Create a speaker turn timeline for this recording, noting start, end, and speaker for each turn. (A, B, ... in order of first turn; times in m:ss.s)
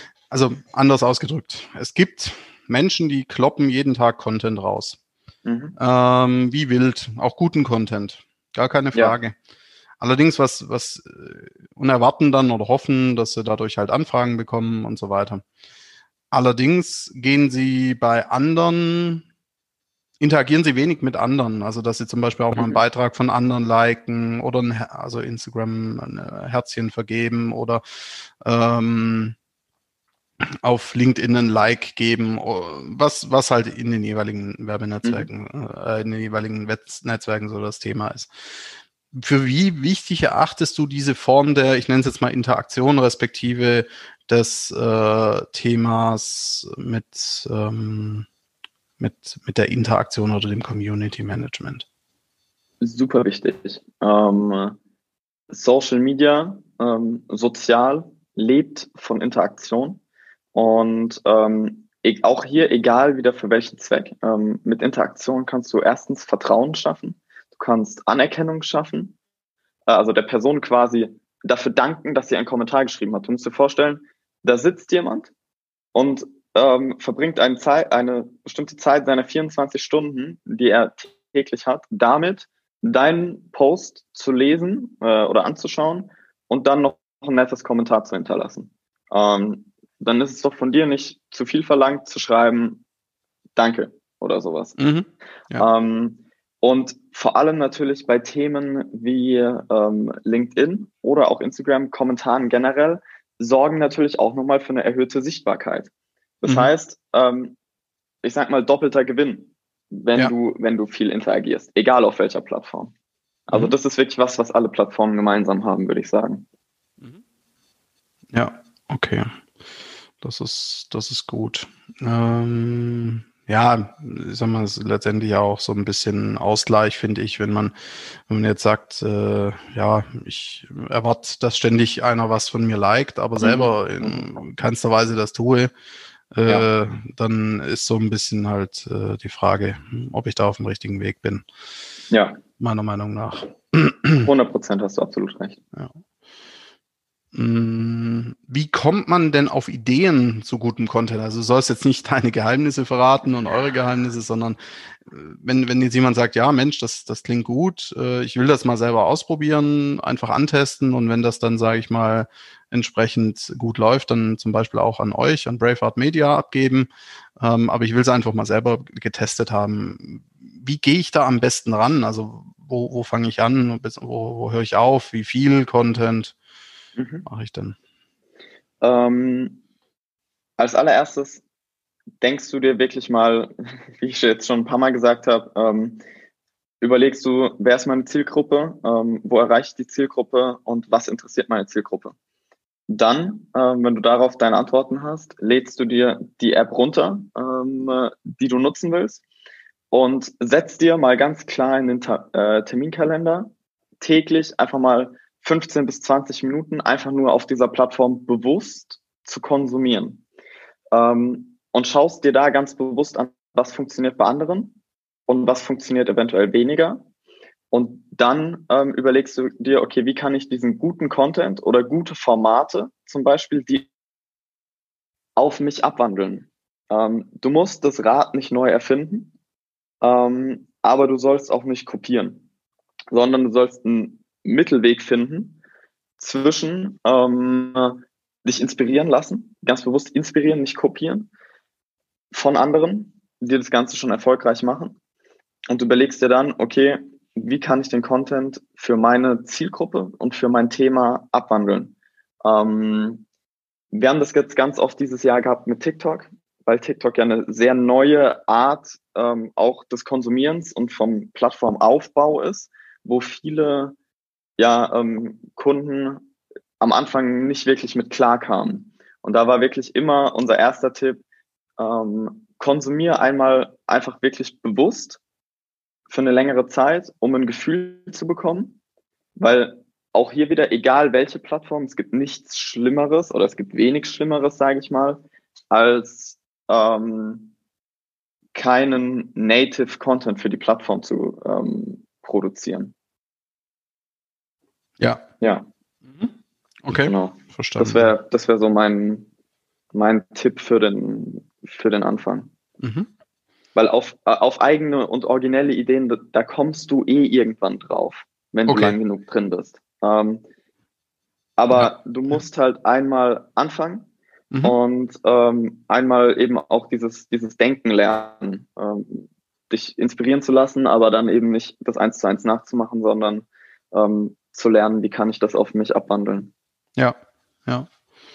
0:00.3-0:05.0 A
0:05.4-0:05.8 B
0:05.8-0:09.3 A
0:10.0-0:15.4 A
0:16.3-0:19.2 A
0:20.2-0:27.8 A
0:22.6-0:22.8 B
0:28.4-0:29.4 A
0:30.6-0:48.2 A
0:49.0-0:51.8 A
0:52.8-0:54.8 B
0:55.5-1:00.0 B
1:00.5-1:09.2 B
1:09.9-1:15.3 B
1:15.9-1:32.8 B
1:33.6-1:34.8 B
1:34.8-1:35.6 A
1:35.6-1:45.9 B
1:46.4-1:47.6 B
1:46.4-1:46.7 A
1:48.2-1:52.9 B
1:53.5-1:56.4 B
1:53.5-1:53.7 A
1:58.3-1:59.3 A
2:00.2-2:07.7 A
2:08.3-2:15.7 A
2:13.4-2:14.2 B
2:16.3-2:21.4 A
2:22.1-2:22.4 B
2:22.6-2:24.3 A
2:24.2-2:25.6 B
2:27.3-2:56.3 A
2:57.0-2:57.2 B
2:57.2-2:57.8 A
2:58.8-2:59.6 B
3:00.6-3:01.4 B
3:02.2-3:06.0 B
3:06.8-3:12.1 B
3:12.9-3:19.2 B
3:19.9-3:23.5 B
3:24.0-3:30.2 B
3:30.9-3:37.0 B
3:37.7-3:43.9 B
3:45.4-3:49.3 B
3:50.0-3:52.4 B
3:53.1-3:55.6 B
3:56.2-4:01.3 B
4:02.3-4:05.0 B
4:05.7-4:13.2 B
4:13.9-4:23.9 B
4:24.6-4:26.3 B
4:26.8-4:31.2 B
4:31.8-4:35.2 B
4:36.1-4:38.8 B
4:39.4-4:47.5 B
4:48.5-4:52.9 B
4:55.0-4:55.2 A
4:55.4-4:55.6 B
4:56.0-4:58.1 A
4:56.9-4:59.3 B
4:59.9-5:02.5 B
5:02.8-5:03.1 A
5:03.7-5:10.4 B
5:08.7-5:09.0 A
5:11.6-5:14.1 B
5:11.7-5:12.3 A
5:14.6-5:26.5 B
5:27.0-5:27.9 A